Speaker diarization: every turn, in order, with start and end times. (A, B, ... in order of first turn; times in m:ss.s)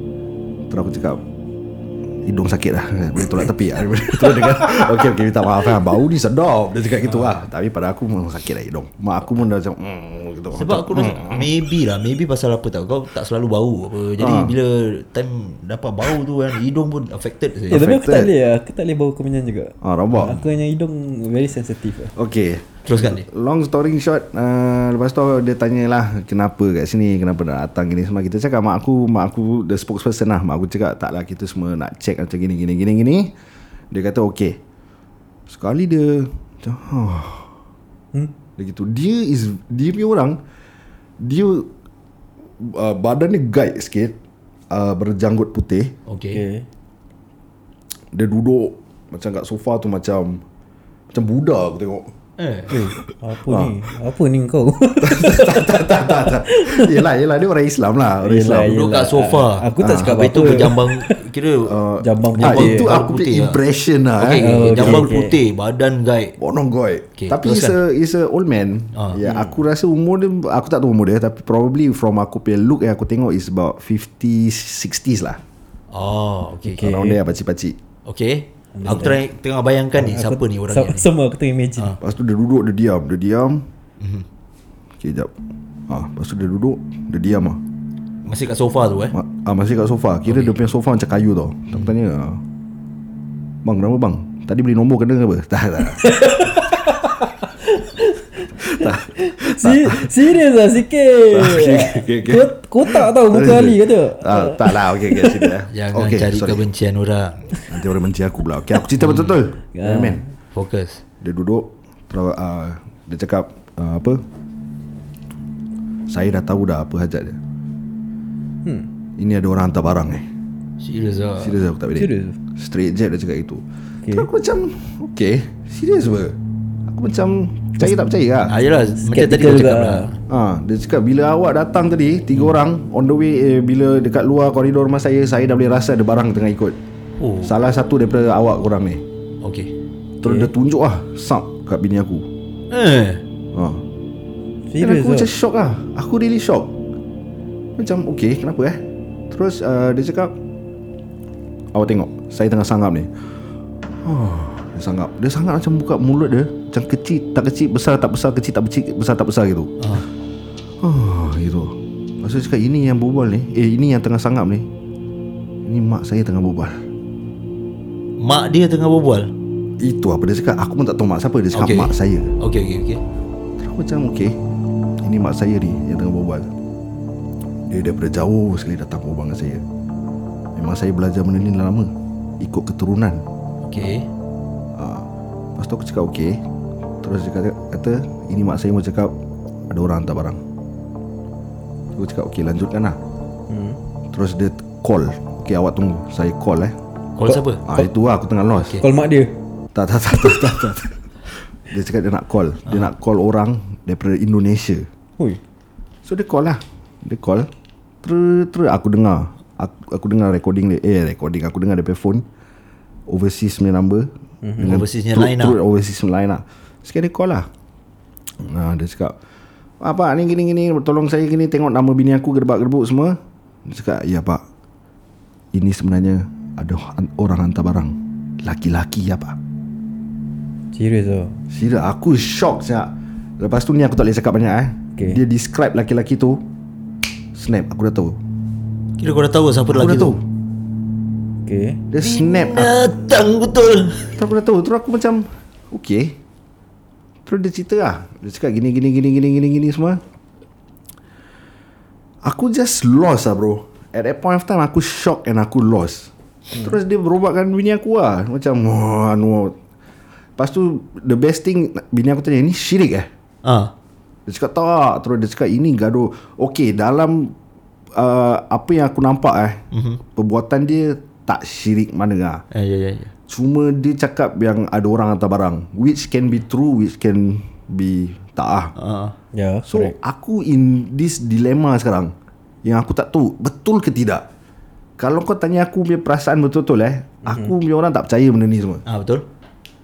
0:00.7-0:01.2 A
0:02.2-0:11.5 A
0:07.0-0:07.3 B
0:10.5-0:17.9 B
0:14.2-0:14.6 A
0:17.7-0:18.3 A
0:17.7-0:22.1 C
0:19.8-0:20.4 A
0:22.2-0:33.3 A
0:22.8-0:23.2 B
0:33.9-0:34.6 A
0:35.5-0:37.5 A
0:38.6-0:40.4 A
0:41.2-0:41.7 A
0:42.6-0:44.2 A
0:44.7-0:45.9 A
0:46.1-0:46.4 B
0:46.3-0:46.6 C
0:48.1-0:50.4 A
0:51.1-0:52.1 A
0:52.4-0:52.7 B
0:52.7-0:57.0 C
0:53.5-0:53.7 A
0:55.0-0:58.8 A
0:58.2-1:01.2 C
0:58.6-1:01.8 B
0:59.8-1:00.2 A
1:01.6-1:05.1 A
1:02.0-1:03.0 C
1:02.4-1:03.6 B
1:04.2-1:06.4 B
1:04.4-1:05.4 C
1:06.4-1:15.4 A
1:07.2-1:07.8 B
1:08.9-1:09.2 B
1:09.2-1:09.6 C
1:15.9-1:16.9 B
1:16.6-1:17.2 C
1:16.8-1:17.8 A
1:18.0-1:21.0 B
1:18.8-1:19.2 C
1:19.9-1:21.9 C
1:22.0-1:23.6 A
1:24.0-1:24.2 B
1:25.0-1:25.3 A
1:25.9-1:27.6 A
1:28.2-1:29.2 B
1:29.1-1:32.4 A
1:30.2-1:30.5 B
1:33.6-1:36.1 A
1:36.0-1:45.5 C
1:38.6-1:40.1 A
1:41.3-1:46.6 A
1:45.7-1:47.5 B
1:47.7-1:50.2 A
1:49.0-1:49.3 B
1:49.7-1:50.3 C
1:50.5-1:51.0 B
1:51.2-1:54.2 A
1:56.1-1:57.4 A
1:59.2-2:00.2 A
2:00.8-2:01.6 B
2:01.4-2:06.4 A
2:01.9-2:02.4 C
2:04.0-2:04.3 C
2:06.9-2:08.5 A
2:08.5-2:10.2 B
2:09.0-2:10.1 C
2:10.3-2:16.8 A
2:17.2-2:17.5 B
2:17.4-2:19.0 A
2:19.4-2:19.7 B
2:20.2-2:22.2 A
2:20.2-2:20.5 C
2:22.7-2:23.2 B
2:23.5-2:23.8 A
2:24.7-2:25.3 C
2:24.8-2:26.7 A
2:27.8-2:30.3 A
2:31.7-2:33.1 A
2:34.0-2:39.7 A
2:39.8-2:40.0 B
2:40.8-2:44.7 A
2:45.6-2:46.8 A
2:48.2-2:49.3 B
2:49.8-2:52.3 A
2:51.5-2:53.0 B
2:53.6-2:54.4 A
2:55.0-2:56.5 A
2:57.7-2:59.6 A
3:00.5-3:03.2 A
3:03.7-3:04.1 B
3:04.7-3:06.4 A
3:07.0-3:09.1 A
3:09.7-3:10.4 A
3:11.9-3:13.0 A
3:13.5-3:13.8 C
3:14.1-3:16.8 A
3:17.2-3:17.7 B
3:17.3-3:18.8 A
3:18.8-3:19.3 C
3:19.7-3:21.0 A
3:21.6-3:24.8 A
3:26.0-3:27.5 A
3:28.0-3:32.2 A
3:33.1-3:37.5 A
3:34.4-3:34.8 C
3:34.6-3:35.6 B
3:38.4-3:39.2 A
3:39.8-3:44.4 A
3:45.5-3:49.4 A
3:50.7-3:51.4 C
3:51.5-3:56.4 A
3:57.3-3:58.2 A
3:59.0-4:00.2 B
3:59.7-4:00.2 A
4:01.5-4:01.8 C
4:01.9-4:02.8 A
4:02.0-4:04.2 B
4:04.1-4:06.2 A
4:07.2-4:10.0 A
4:12.2-4:19.6 A
4:20.4-4:23.1 A
4:23.4-4:23.7 B
4:24.3-4:27.3 A
4:27.9-4:29.6 A
4:29.7-4:30.0 B
4:30.1-4:32.4 A
4:32.5-4:33.1 B
4:33.3-4:38.7 A
4:38.8-4:39.1 B
4:39.3-4:39.9 C
4:39.7-4:42.1 A
4:42.6-4:44.2 A
4:45.0-4:48.8 A
4:47.2-4:47.5 C
4:48.8-4:49.2 B